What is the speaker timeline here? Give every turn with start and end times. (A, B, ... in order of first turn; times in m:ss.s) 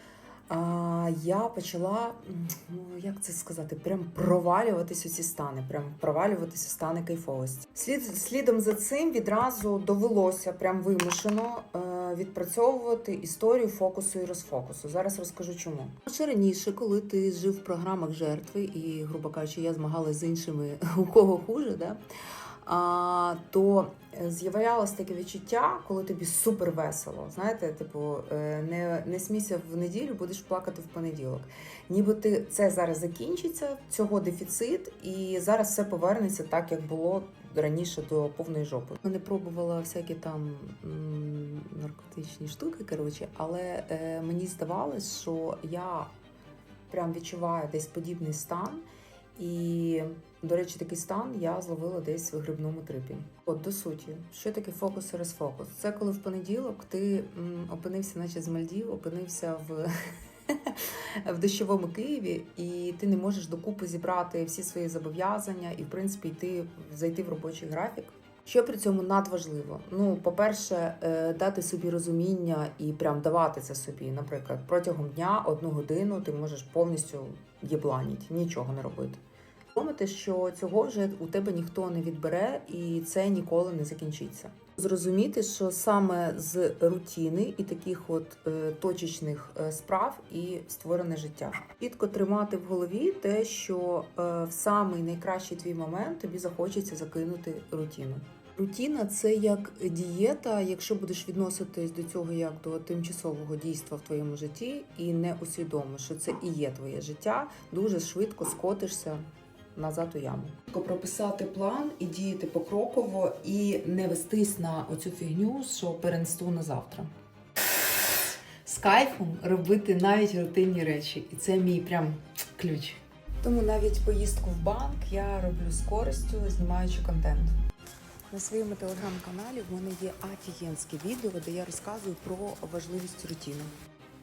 0:00.5-0:22.0 A
0:22.6-0:46.1 A
0:46.9-0:48.8 A
0:49.4-0:59.9 A
1:00.5-1:19.2 A
1:19.7-1:49.2 A
1:49.8-1:57.1 A
1:58.6-2:07.5 A
2:08.3-2:13.7 A